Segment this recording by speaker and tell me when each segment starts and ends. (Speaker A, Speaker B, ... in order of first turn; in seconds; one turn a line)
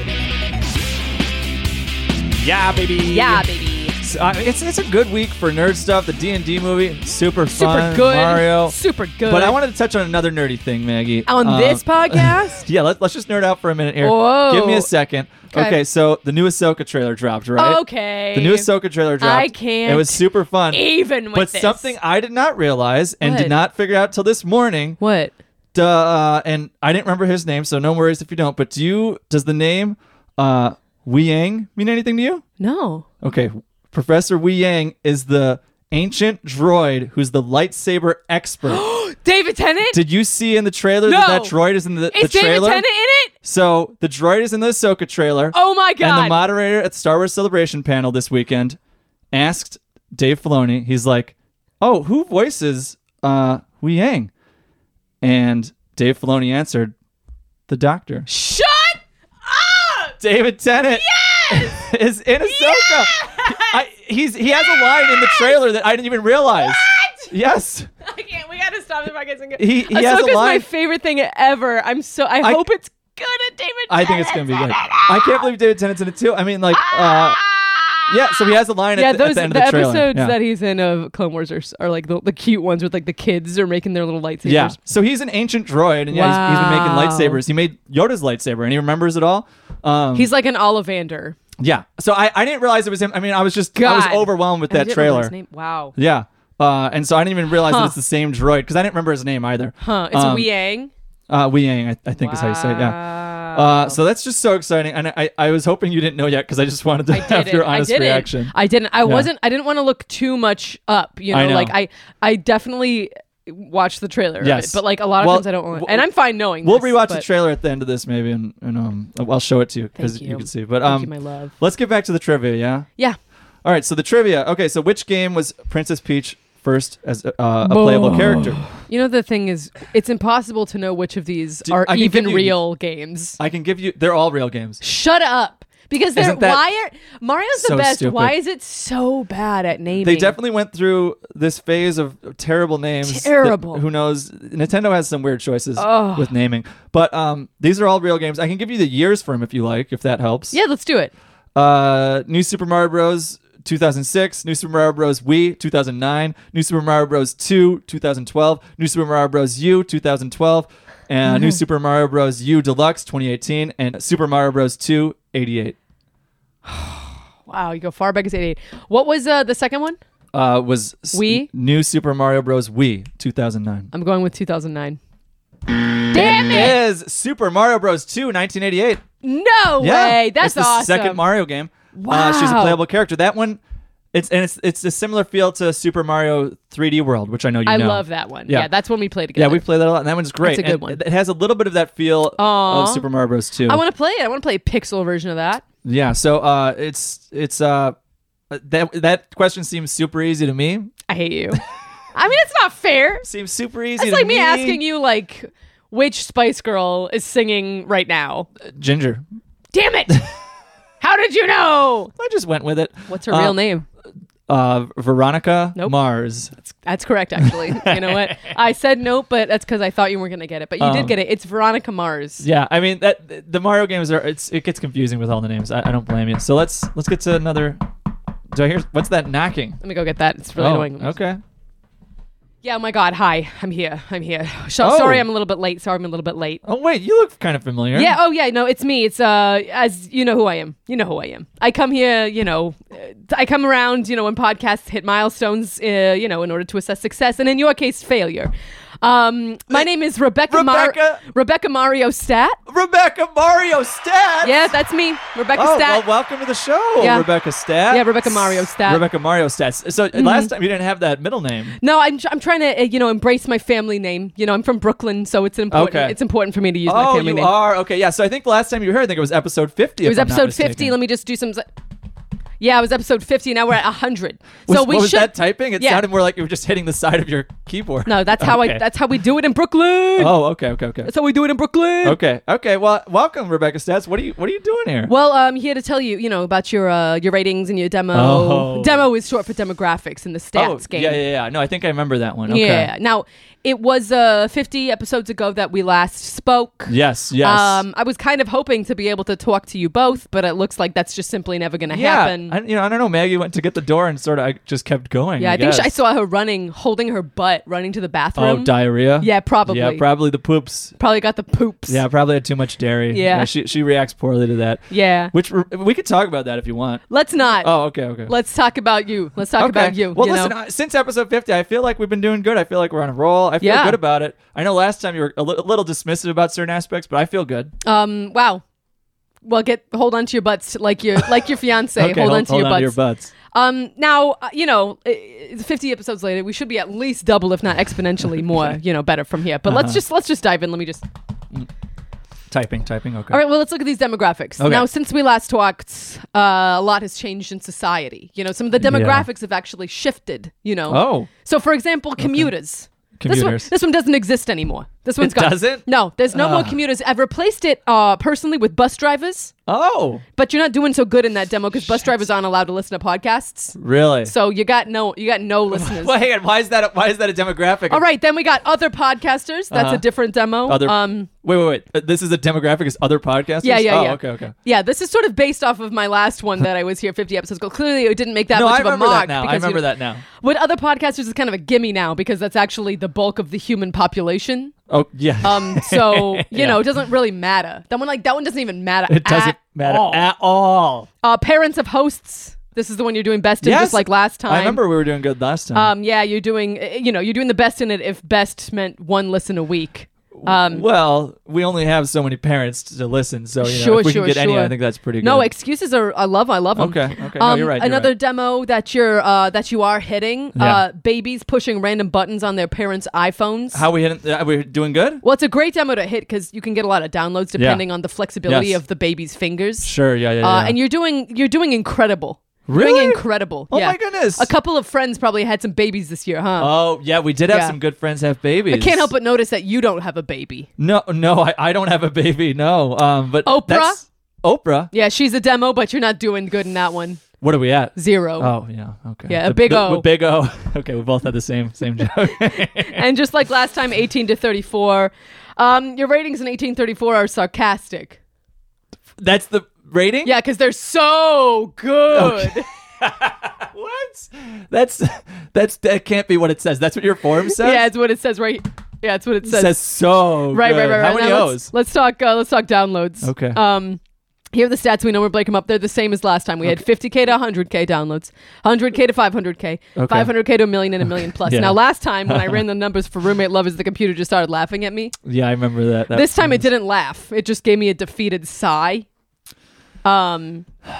Speaker A: 2.4-3.5
Speaker B: 3.1-4.0
Speaker A: 4.0-25.0
Speaker B: 7.5-9.6
Speaker B: 11.3-12.7
Speaker B: 14.0-14.9
Speaker B: 15.5-15.8
Speaker B: 17.6-21.9
Speaker B: 23.2-23.6
Speaker B: 25.0-25.3
Speaker A: 25.7-32.5
Speaker B: 32.6-33.1
Speaker A: 33.2-38.8
Speaker B: 38.7-40.0
Speaker A: 39.9-42.9
Speaker B: 41.0-41.6
Speaker B: 42.1-43.3
Speaker A: 43.4-48.8
Speaker B: 45.5-46.4
Speaker A: 49.3-54.3
Speaker A: 55.2-56.9
Speaker A: 57.7-58.3
Speaker B: 58.3-60.2
Speaker A: 60.2-67.9
Speaker B: 60.9-61.8
Speaker B: 62.4-63.8
Speaker B: 64.6-65.6
Speaker B: 66.6-67.3
Speaker B: 68.0-75.5
Speaker A: 69.6-70.7
Speaker A: 72.4-72.7
Speaker A: 73.9-77.4
Speaker B: 76.7-78.3
Speaker A: 78.1-80.4
Speaker B: 78.9-84.8
Speaker A: 84.5-90.3
Speaker B: 86.1-87.4
Speaker B: 90.1-91.4
Speaker A: 91.6-95.3
Speaker B: 93.8-95.9
Speaker A: 96.0-100.5
Speaker B: 97.6-98.0
Speaker B: 99.8-100.9
Speaker A: 101.3-109.3
Speaker B: 102.1-104.0
Speaker B: 107.1-117.2
Speaker A: 111.3-111.8
Speaker A: 114.4-116.1
Speaker A: 116.6-122.9
Speaker B: 120.0-121.5
Speaker A: 123.6-128.7
Speaker B: 127.6-133.4
Speaker A: 131.7-132.6
Speaker A: 133.4-134.8
Speaker B: 134.8-140.4
Speaker A: 136.2-136.6
Speaker A: 137.6-138.3
Speaker A: 140.0-150.6
Speaker B: 143.0-143.8
Speaker B: 145.8-146.3
Speaker B: 150.5-151.1
Speaker A: 151.6-165.8
Speaker B: 161.3-161.6
Speaker B: 166.7-170.0
Speaker A: 170.3-173.9
Speaker B: 171.1-171.5
Speaker B: 173.9-175.0
Speaker B: 176.1-176.8
Speaker A: 176.1-179.1
Speaker B: 179.2-181.2
Speaker A: 179.8-183.6
Speaker B: 181.9-182.8
Speaker A: 184.1-188.7
Speaker B: 187.7-189.7
Speaker A: 189.3-193.8
Speaker B: 190.4-191.0
Speaker B: 192.4-193.1
Speaker B: 193.7-195.6
Speaker A: 195.8-198.0
Speaker A: 198.5-200.9
Speaker B: 201.1-201.6
Speaker B: 202.1-203.3
Speaker A: 203.2-204.8
Speaker B: 204.0-208.5
Speaker A: 208.6-209.2
Speaker B: 209.7-210.3
Speaker B: 211.0-212.1
Speaker A: 212.2-213.6
Speaker B: 213.1-213.9
Speaker A: 214.5-216.5
Speaker B: 216.6-222.4
Speaker A: 217.4-218.5
Speaker A: 220.8-221.2
Speaker A: 222.4-227.9
Speaker A: 228.5-229.8
Speaker B: 229.8-231.2
Speaker A: 230.6-231.4
Speaker B: 232.6-236.6
Speaker A: 234.8-235.3
Speaker A: 236.6-238.2
Speaker B: 237.9-252.6
Speaker A: 250.5-251.2
Speaker A: 252.7-254.6
Speaker B: 254.4-256.1
Speaker A: 255.6-261.8
Speaker B: 257.0-257.3
Speaker B: 257.9-259.0
Speaker B: 260.1-260.5
Speaker B: 261.8-267.5
Speaker A: 265.7-266.2
Speaker A: 266.9-271.0
Speaker B: 270.0-271.7
Speaker B: 272.6-276.1
Speaker A: 274.7-278.8
Speaker B: 278.1-280.4
Speaker A: 280.2-281.1
Speaker B: 281.0-282.2
Speaker A: 282.0-285.1
Speaker B: 285.1-291.2
Speaker A: 288.1-289.1
Speaker A: 290.5-292.9
Speaker B: 292.5-302.6
Speaker A: 296.9-297.9
Speaker A: 301.9-305.9
Speaker B: 305.4-310.1
Speaker A: 308.4-311.0
Speaker B: 311.0-312.0
Speaker A: 311.9-317.1
Speaker B: 313.1-313.5
Speaker B: 314.9-315.3
Speaker B: 317.1-320.6
Speaker A: 317.6-318.3
Speaker A: 319.6-327.7
Speaker B: 323.6-324.0
Speaker B: 327.8-328.6
Speaker B: 329.4-333.0
Speaker A: 332.0-333.3
Speaker B: 333.5-341.1
Speaker A: 339.6-340.0
Speaker A: 342.5-343.4
Speaker B: 343.3-359.5
Speaker A: 344.6-344.9
Speaker A: 348.8-349.3
Speaker A: 350.9-351.3
Speaker A: 352.2-352.5
Speaker A: 353.2-353.7
Speaker A: 355.2-356.8
Speaker A: 359.7-360.2
Speaker B: 360.4-366.2
Speaker A: 363.8-364.3
Speaker A: 365.7-368.0
Speaker B: 367.9-371.3
Speaker A: 369.7-370.1
Speaker A: 370.6-374.6
Speaker B: 373.6-384.8
Speaker A: 378.5-380.2
Speaker A: 384.9-386.9
Speaker B: 385.4-390.3
Speaker A: 389.1-391.1
Speaker B: 391.2-394.8
Speaker A: 393.6-395.9
Speaker B: 395.7-400.9
Speaker A: 400.3-405.5
Speaker B: 403.6-413.9
Speaker A: 406.8-408.1
Speaker A: 410.6-410.8
Speaker A: 413.7-415.2
Speaker B: 415.2-426.8
Speaker A: 417.6-417.8
Speaker A: 418.5-418.8
Speaker A: 419.8-420.8
Speaker A: 422.7-424.5
Speaker A: 426.6-429.1
Speaker B: 427.5-427.8
Speaker B: 428.7-430.7
Speaker A: 430.8-434.9
Speaker B: 433.4-434.0
Speaker B: 434.9-437.3
Speaker A: 437.4-443.0
Speaker B: 437.9-438.5
Speaker B: 439.3-440.1
Speaker B: 442.3-448.2
Speaker A: 449.2-450.3
Speaker B: 450.2-452.7
Speaker A: 452.1-457.9
Speaker B: 457.5-464.0
Speaker A: 459.4-461.7
Speaker A: 463.2-463.6
Speaker B: 464.5-475.2
Speaker A: 469.9-470.3
Speaker A: 471.0-472.6
Speaker A: 475.2-476.6
Speaker B: 476.1-479.1
Speaker B: 480.0-480.7